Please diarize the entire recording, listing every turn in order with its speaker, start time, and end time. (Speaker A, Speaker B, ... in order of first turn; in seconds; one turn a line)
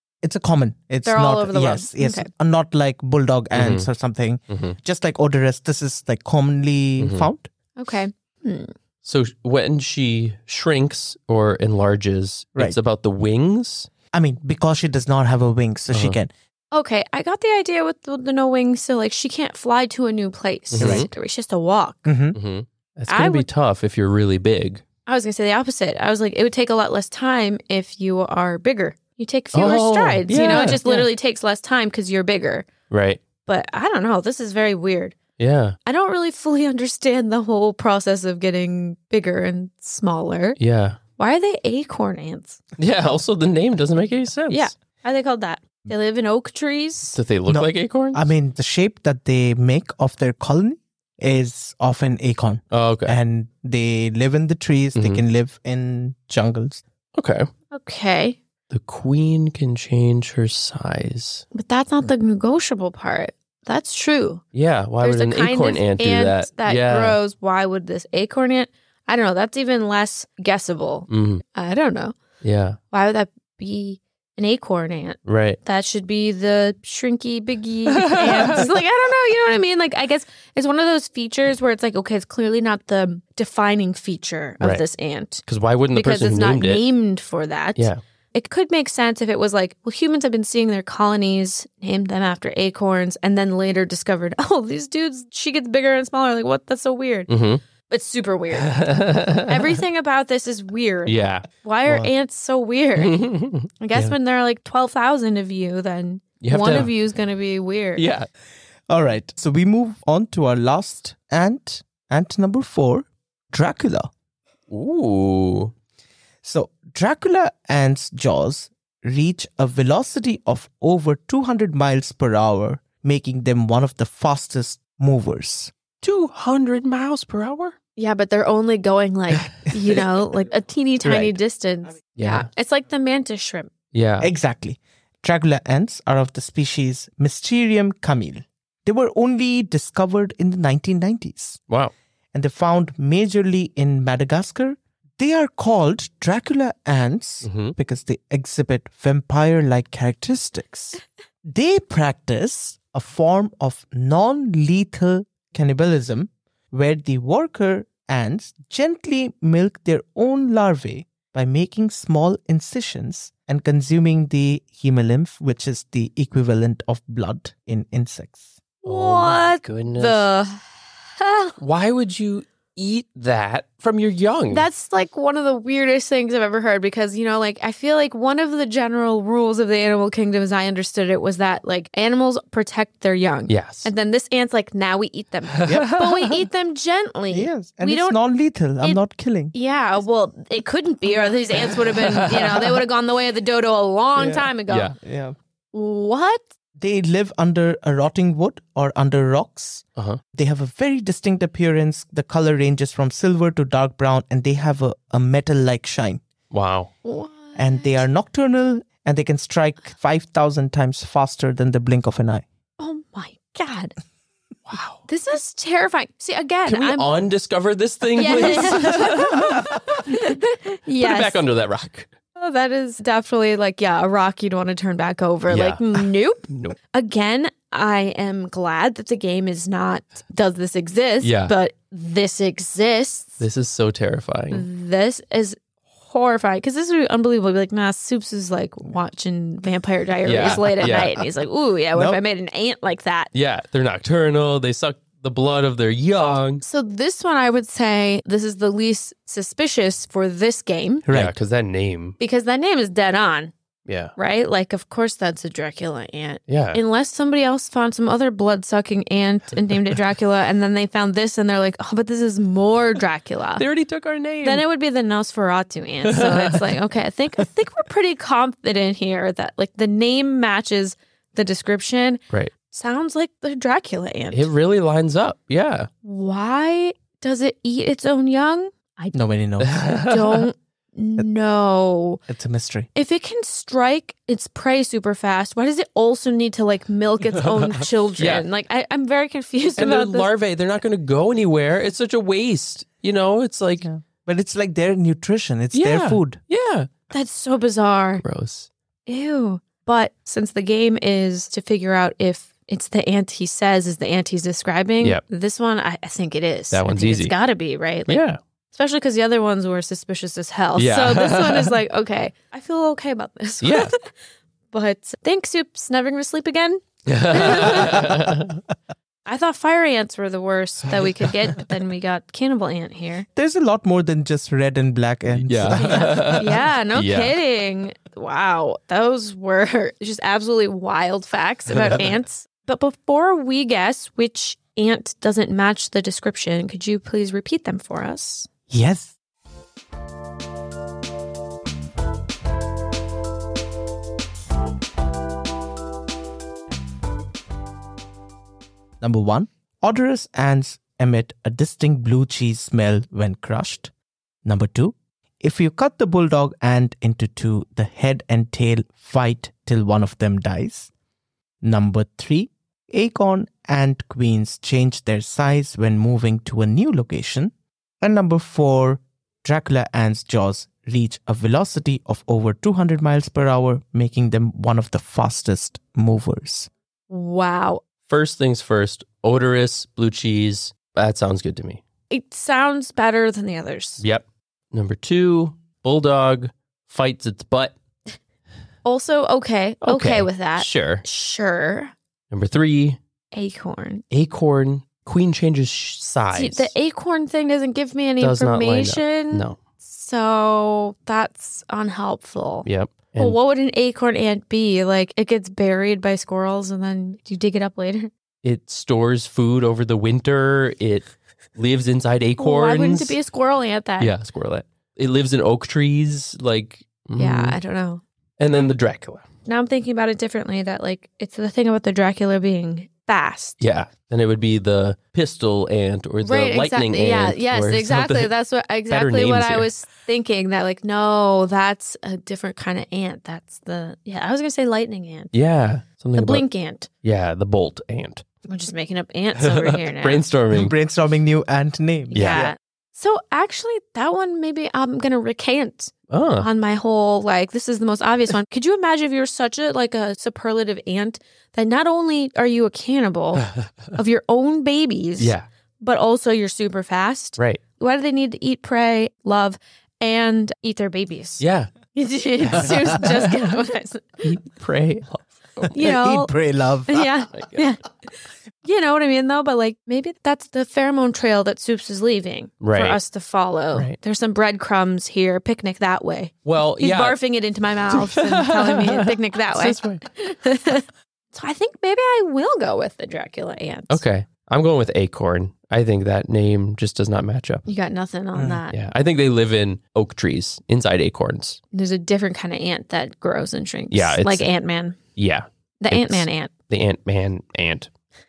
Speaker A: 0.2-7.5
Speaker B: 1.0-2.3
Speaker C: 3.5-3.9
Speaker C: 4.5-4.8
Speaker C: 7.0-7.3
Speaker B: 7.8-8.7
Speaker C: 9.0-13.9
Speaker A: 14.1-16.3
Speaker C: 15.9-16.2
Speaker B: 16.7-22.1
Speaker C: 20.7-21.1
Speaker A: 20.8-21.1
Speaker A: 22.0-22.4
Speaker C: 22.3-24.8
Speaker B: 23.1-23.5
Speaker B: 25.1-32.7
Speaker C: 29.5-31.1
Speaker C: 32.9-33.2
Speaker B: 33.4-35.2
Speaker C: 35.4-35.8
Speaker B: 35.8-40.6
Speaker C: 40.6-41.0
Speaker B: 41.2-42.6
Speaker C: 42.8-44.7
Speaker B: 44.5-47.2
Speaker C: 47.1-48.3
Speaker A: 47.5-56.8
Speaker C: 52.7-53.2
Speaker C: 54.9-55.2
Speaker C: 57.1-57.5
Speaker B: 57.7-58.4
Speaker C: 58.7-61.4
Speaker B: 61.5-64.4
Speaker C: 64.5-67.2
Speaker B: 65.0-72.2
Speaker C: 71.1-71.4
Speaker C: 72.4-72.8
Speaker B: 72.9-97.3
Speaker C: 75.2-75.6
Speaker C: 77.9-78.7
Speaker C: 85.4-86.8
Speaker C: 97.3-97.6
Speaker B: 97.8-98.8
Speaker C: 98.5-99.8
Speaker B: 99.5-103.2
Speaker C: 101.0-101.5
Speaker A: 101.8-102.1
Speaker C: 103.0-104.1
Speaker B: 103.8-108.1
Speaker C: 106.4-106.9
Speaker C: 108.0-108.3
Speaker A: 108.9-114.1
Speaker C: 114.7-115.7
Speaker A: 116.4-125.7
Speaker C: 126.0-127.8
Speaker B: 128.0-133.7
Speaker A: 131.0-131.4
Speaker C: 132.2-132.5
Speaker C: 133.9-134.3
Speaker A: 134.2-141.6
Speaker A: 142.3-168.4
Speaker C: 147.4-147.8
Speaker B: 168.8-171.6
Speaker C: 168.8-170.3
Speaker C: 171.6-174.7
Speaker B: 174.5-188.2
Speaker C: 183.5-183.9
Speaker C: 185.6-186.3
Speaker A: 185.7-186.0
Speaker A: 187.3-189.5
Speaker B: 189.5-194.9
Speaker C: 191.8-192.8
Speaker A: 194.2-195.3
Speaker C: 194.7-194.9
Speaker B: 195.7-196.5
Speaker A: 196.8-206.2
Speaker C: 206.5-206.9
Speaker B: 207.0-208.0
Speaker A: 207.5-212.4
Speaker B: 212.8-213.9
Speaker C: 214.7-215.0
Speaker B: 215.1-217.1
Speaker C: 216.7-220.1
Speaker B: 218.1-221.4
Speaker C: 221.0-222.1
Speaker B: 222.3-233.4
Speaker C: 225.5-226.8
Speaker C: 231.2-231.5
Speaker C: 233.4-234.7
Speaker B: 234.5-243.3
Speaker C: 240.2-241.1
Speaker A: 241.9-242.2
Speaker C: 243.3-246.6
Speaker B: 246.6-251.1
Speaker A: 251.1-251.3
Speaker C: 251.1-252.2
Speaker B: 252.2-253.5
Speaker C: 253.8-254.1
Speaker B: 254.2-263.6
Speaker C: 256.5-256.8
Speaker C: 263.6-264.6
Speaker B: 264.4-274.5
Speaker C: 266.0-266.8
Speaker C: 274.3-275.9
Speaker B: 276.0-279.1
Speaker A: 279.1-280.0
Speaker C: 279.6-280.5
Speaker B: 279.9-282.2
Speaker A: 282.3-282.9
Speaker B: 282.9-290.3
Speaker C: 288.2-288.4
Speaker C: 289.8-293.9
Speaker A: 293.8-296.4
Speaker C: 295.7-296.9
Speaker B: 297.1-298.2
Speaker C: 298.2-298.7
Speaker B: 299.1-314.1
Speaker C: 306.7-307.4
Speaker C: 308.1-308.4
Speaker C: 310.8-311.8
Speaker C: 313.6-313.9
Speaker B: 314.7-318.1
Speaker C: 317.1-318.6
Speaker B: 319.2-323.2
Speaker A: 323.4-326.4
Speaker C: 325.4-327.4
Speaker B: 325.7-338.5
Speaker C: 331.8-332.1
Speaker A: 338.7-339.1
Speaker A: 349.0-353.9
Speaker A: 354.4-360.9
Speaker A: 361.6-376.7
Speaker B: 377.1-377.8
Speaker C: 378.1-381.8
Speaker B: 382.1-384.0
Speaker C: 384.0-387.8
Speaker B: 388.8-391.9
Speaker C: 389.8-391.0
Speaker C: 392.3-393.0
Speaker B: 393.3-394.0
Speaker C: 394.1-396.7
Speaker B: 396.3-402.6
Speaker C: 398.2-399.6
Speaker C: 402.6-403.4
Speaker B: 403.2-408.1
Speaker C: 408.4-413.2
Speaker B: 412.4-414.1
Speaker C: 414.0-417.6
Speaker B: 417.1-418.0
Speaker C: 418.4-419.3
Speaker B: 419.4-423.6
Speaker C: 423.6-428.4
Speaker B: 426.2-435.3
Speaker C: 428.9-429.7
Speaker C: 435.3-436.4
Speaker B: 436.1-436.9
Speaker C: 437.0-438.2
Speaker B: 438.5-440.2
Speaker C: 439.4-440.7
Speaker A: 440.5-442.5
Speaker B: 442.1-464.3
Speaker C: 442.1-442.5
Speaker C: 446.1-446.5
Speaker C: 455.2-455.4
Speaker C: 461.4-461.7
Speaker A: 462.5-463.0
Speaker C: 462.5-463.6
Speaker C: 464.2-465.7
Speaker B: 465.7-466.3
Speaker A: 465.7-467.1
Speaker B: 466.9-467.9
Speaker C: 467.3-467.6
Speaker B: 468.6-484.0
Speaker C: 472.6-473.0
Speaker C: 476.4-477.2
Speaker C: 477.9-480.0
Speaker C: 483.9-487.6
Speaker B: 487.6-488.7
Speaker A: 488.3-488.6
Speaker C: 488.7-491.6
Speaker B: 491.7-495.0
Speaker C: 493.9-494.5
Speaker C: 495.1-497.9
Speaker B: 495.8-496.5